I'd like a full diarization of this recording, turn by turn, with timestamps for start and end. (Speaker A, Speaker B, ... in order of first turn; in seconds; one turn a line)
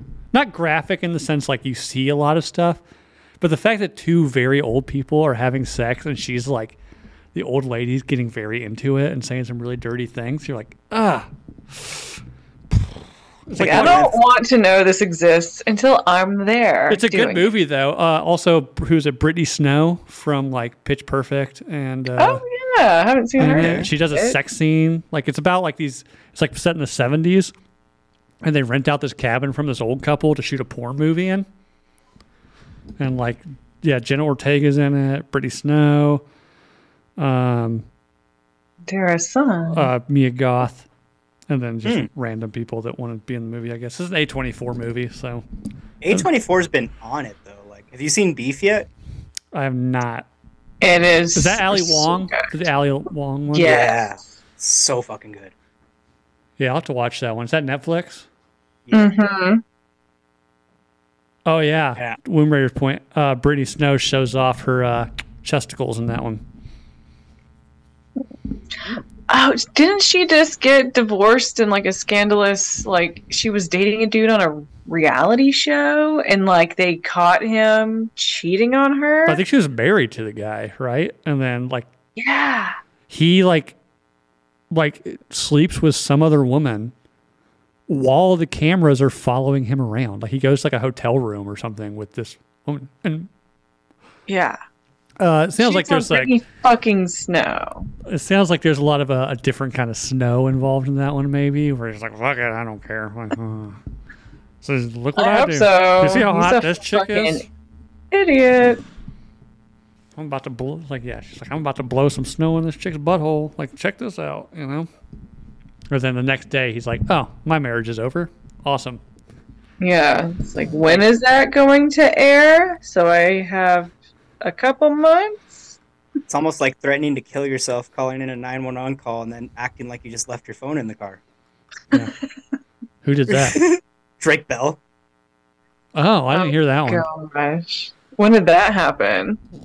Speaker A: 0.3-2.8
Speaker A: 3.4-6.8
Speaker A: 7.3-12.2
Speaker A: 13.5-14.1
Speaker B: 13.6-14.2
Speaker C: 13.6-17.5
Speaker A: 16.9-22.4
Speaker C: 22.2-24.4
Speaker A: 23.4-27.5
Speaker B: 23.5-23.9
Speaker A: 28.4-31.4
Speaker A: 33.0-36.2
Speaker A: 37.2-37.9
Speaker C: 38.9-39.9
Speaker A: 39.7-40.9
Speaker A: 41.5-45.4
Speaker B: 46.0-48.9
Speaker A: 49.5-50.3
Speaker C: 50.8-52.5
Speaker A: 51.3-53.8
Speaker C: 53.5-54.1
Speaker B: 53.6-55.5
Speaker A: 56.6-58.3
Speaker B: 58.9-59.1
Speaker C: 58.9-59.6
Speaker A: 61.5-66.4
Speaker C: 69.3-79.4
Speaker A: 79.3-81.9
Speaker C: 82.2-82.8
Speaker A: 83.1-83.8
Speaker A: 84.7-86.9
Speaker A: 87.9-93.3
Speaker C: 94.3-94.6
Speaker A: 95.2-96.3
Speaker C: 95.6-97.9
Speaker A: 98.0-103.8
Speaker A: 104.6-107.4
Speaker C: 105.2-107.5
Speaker C: 108.1-108.8
Speaker A: 110.2-114.9
Speaker A: 115.9-119.0
Speaker C: 119.8-125.7
Speaker B: 126.3-131.2
Speaker A: 133.0-133.6
Speaker B: 133.3-134.8
Speaker A: 135.9-137.0
Speaker C: 136.3-139.4